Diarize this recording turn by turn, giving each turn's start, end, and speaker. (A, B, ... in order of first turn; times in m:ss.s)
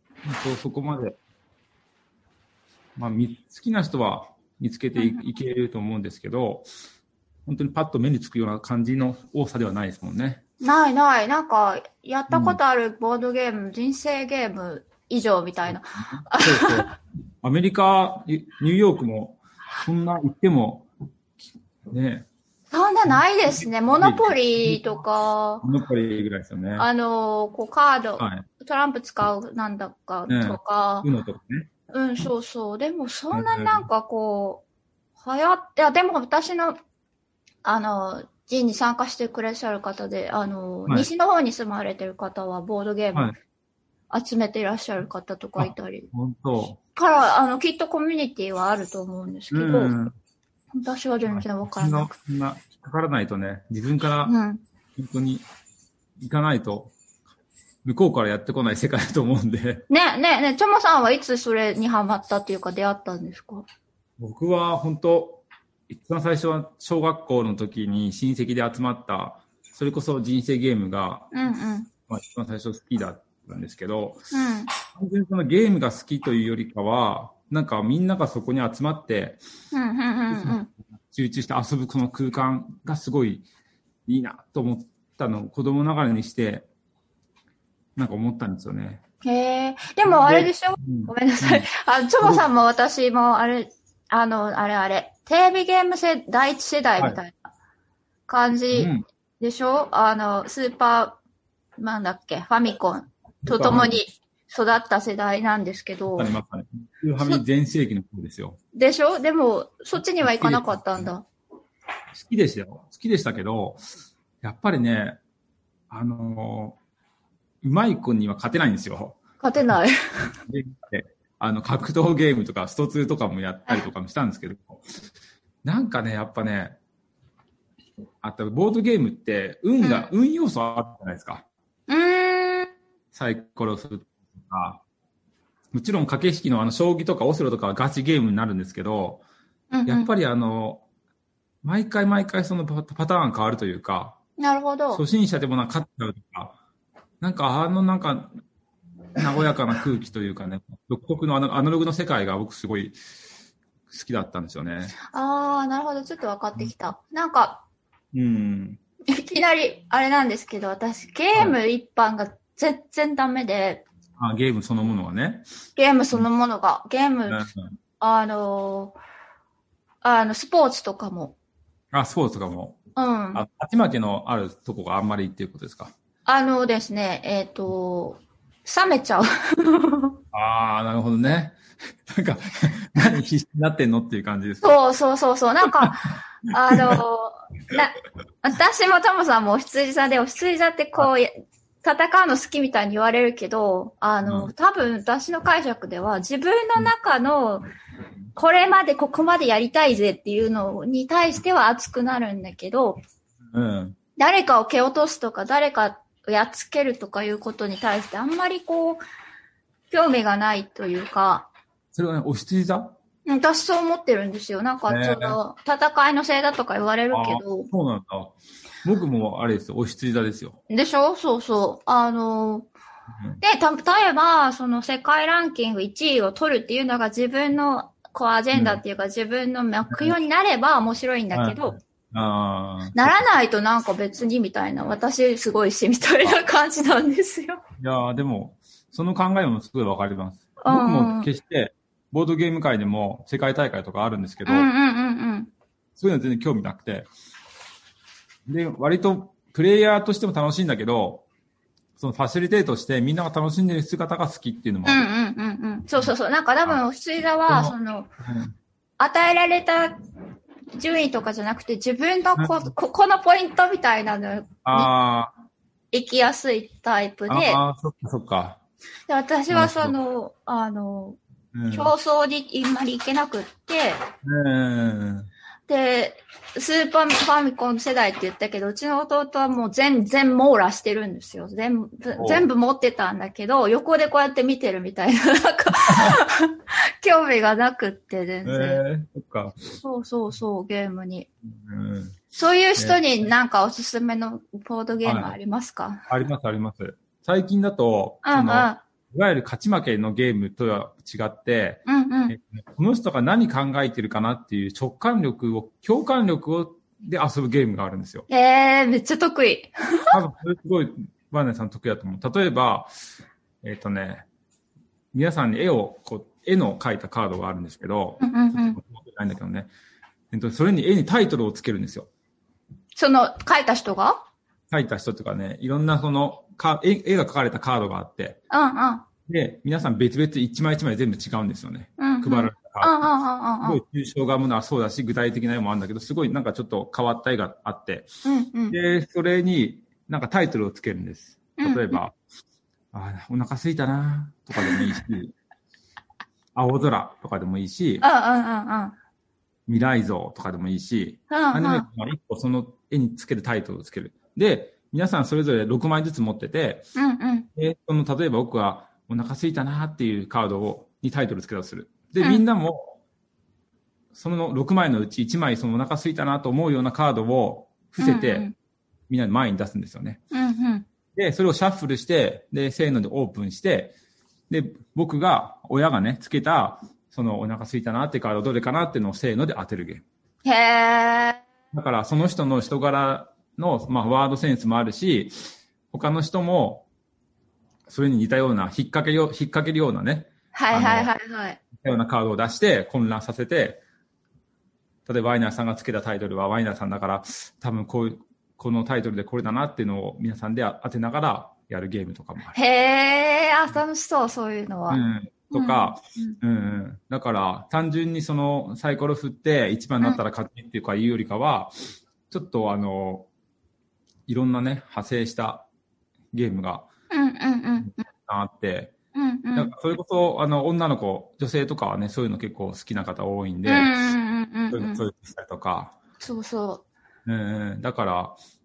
0:00.2-0:01.2 A
0:03.0-0:06.7 A
0:07.5-0:10.4 A
0:10.6-0:16.9 B
0:12.3-0:12.6 A
0:16.0-0:20.9 A
0:21.9-0:22.3 A
0:22.7-0:25.6 B
0:23.1-0:24.9 A
0:25.6-0:26.9 A
0:26.8-0:31.1 B
0:28.2-0:28.5 A
0:30.3-0:31.7 A
0:31.9-0:34.6 B
0:33.3-0:33.9 A
0:35.2-0:36.8 B
0:37.6-0:43.3 B
0:44.1-0:46.1 B
0:45.6-0:46.8 A
0:47.0-0:49.9 B
0:49.5-0:50.2 A
0:50.8-0:52.1 B
0:51.3-0:54.4 A
0:54.2-0:54.6 B
0:55.0-0:55.4 A
0:56.2-0:56.9 A
0:57.8-0:59.9 A
0:59.9-1:03.7 B
1:04.2-1:11.4 A
1:11.3-1:11.9 B
1:12.1-1:14.2 A
1:14.3-1:14.7 B
1:14.9-1:19.4 A
1:19.7-1:20.7 B
1:20.3-1:23.5 A
1:24.1-1:26.7 A
1:28.0-1:29.0 A
1:29.2-1:37.4 B
1:30.0-1:31.7 A
1:38.3-1:41.2 B
1:38.7-1:39.0 A
1:41.8-1:46.3 B
1:43.5-1:44.0 A
1:46.2-1:48.6 A
1:48.7-1:51.2 B
1:50.2-1:51.0 A
1:52.1-1:53.8 A
1:54.4-1:55.2 A
1:55.9-1:56.8 A
1:57.6-1:59.2 A
1:59.4-2:00.4 B
2:00.5-2:04.8 A
2:05.6-2:06.8 A
2:08.2-2:11.4 A
2:09.8-2:10.1 B
2:11.9-2:12.7 B
2:13.1-2:14.8 A
2:15.7-2:19.2 A
2:19.7-2:20.1 B
2:19.9-2:20.8 A
2:21.6-2:24.2 A
2:24.4-2:25.0 B
2:24.9-2:26.6 A
2:27.2-2:28.3 A
2:29.2-2:33.0 A
2:33.9-2:35.0 A
2:35.0-2:37.6 B
2:38.1-2:38.8 A
2:39.1-2:43.9 B
2:44.2-2:45.5 A
2:45.8-2:47.5 B
2:47.3-2:47.8 A
2:48.0-2:49.0 B
2:50.0-2:51.4 B
2:51.9-2:52.8 A
2:53.0-2:53.4 B
2:53.3-2:55.9 A
2:56.3-3:00.2 B
3:00.3-3:01.6 A
3:02.1-3:04.8 A
3:04.6-3:17.6 B
3:06.7-3:07.0 A
3:14.3-3:14.5 A
3:18.4-3:23.0 B
3:23.5-3:24.0 A
3:24.2-3:29.0 B
3:29.9-3:31.5 B
3:31.9-3:33.0 A
3:33.3-3:37.7 B
3:34.9-3:35.4 A
3:37.1-3:40.6 A
3:40.7-3:42.7 B
3:43.4-3:51.8 B
3:48.5-3:48.8 A
3:49.9-3:50.2 A
3:51.3-3:53.2 A
3:53.0-3:57.6 B
3:57.8-4:04.7 A
4:00.6-4:01.3 B
4:04.4-4:05.5 B
4:06.0-4:07.1 A
4:08.5-4:11.2 A
4:12.0-4:15.1 A
4:14.8-4:18.1 B
4:17.5-4:18.5 A
4:19.0-4:20.0 B
4:20.8-4:24.9 B
4:22.4-4:22.7 A
4:24.6-4:25.3 A
4:25.9-4:27.6 B
4:27.3-4:28.6 A
4:29.1-4:31.2 B
4:29.5-4:30.0 A
4:31.5-4:31.9 A
4:31.7-4:34.0 B
4:34.2-4:35.3 A
4:35.7-4:48.8 B
4:42.1-4:42.5 A
4:45.9-4:46.2 A
4:48.4-4:49.7 A
4:49.8-4:51.3 B
4:51.5-4:52.2 A
4:52.3-4:56.0 B
4:52.8-4:53.0 A
4:55.0-4:55.4 A
4:56.1-5:08.3 A
4:58.2-4:58.8 B
5:01.9-5:02.4 B
5:08.3-5:10.2 B
5:10.1-5:12.9 A
5:13.6-5:14.3 A
5:15.1-5:19.7 A
5:18.2-5:18.8 B
5:20.3-5:22.1 A
5:23.0-5:24.2 B
5:24.7-5:28.4 A
5:28.5-5:29.1 B
5:29.3-5:33.1 A
5:32.0-5:33.8 B
5:33.6-5:38.1 A
5:38.2-5:38.8 B
5:38.7-5:42.2 A
5:41.6-5:42.0 B
5:42.9-5:45.3 A
5:44.6-5:45.0 B
5:46.6-5:48.1 A
5:48.0-5:49.0 B
5:49.7-5:56.9 A
5:51.3-5:51.9 B
5:57.0-5:57.5 B
5:57.6-6:03.0 A
6:04.1-6:08.5 A
6:08.0-6:08.6 B
6:09.1-6:10.2 A
6:10.3-6:10.9 B
6:11.2-6:14.0 A
6:14.5-6:20.0 A
6:20.4-6:21.4 B
6:21.7-6:26.8 A
6:27.9-6:31.1 A
6:30.5-6:31.6 B
6:31.8-6:33.8 A
6:35.1-6:42.6 A
6:42.6-6:46.4 B
6:44.9-6:51.7 A
6:52.3-6:53.3 A
6:54.3-6:55.7 A
6:56.3-6:56.9 A
6:57.1-6:57.9 B
6:57.8-6:58.9 A
6:59.1-6:59.7 B
6:59.5-7:03.9 A
7:03.6-7:05.0 B
7:04.7-7:06.0 A
7:06.2-7:06.8 B
7:07.2-7:08.4 A